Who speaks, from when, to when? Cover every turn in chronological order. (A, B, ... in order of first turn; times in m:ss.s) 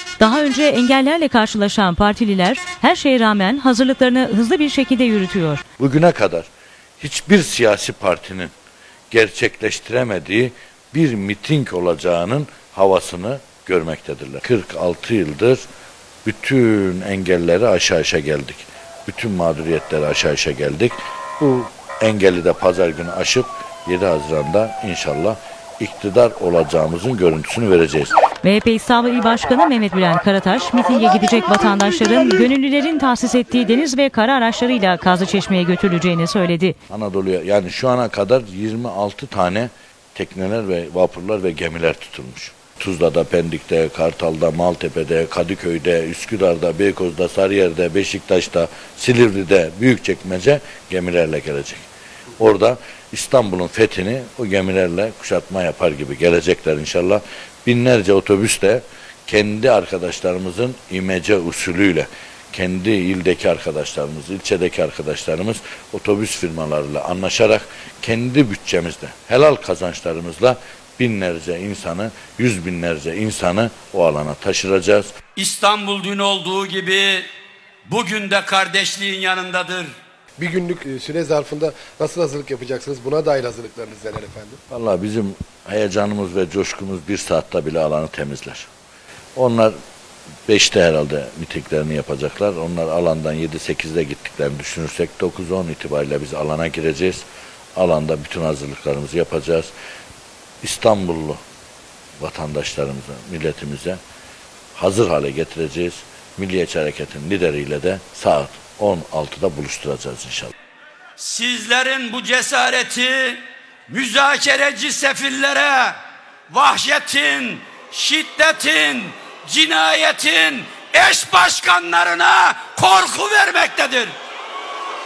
0:00.2-0:05.6 A
0:05.8-0:06.5 B
0:07.0-0:08.5 B
0:09.1-0:15.6 B
0:16.2-0:28.1 B
0:28.4-0:36.8 A
0:36.9-0:51.9 B
0:52.4-1:15.1 B
1:15.4-1:17.3 C
1:17.8-1:19.9 C
1:20.4-1:24.6 D
1:24.7-1:28.7 B
1:29.4-1:29.7 B
1:30.5-1:39.7 B
1:40.6-1:41.4 B
1:42.2-1:44.0 B
1:44.8-1:50.5 B
1:51.2-1:56.0 C
1:56.5-2:04.1 C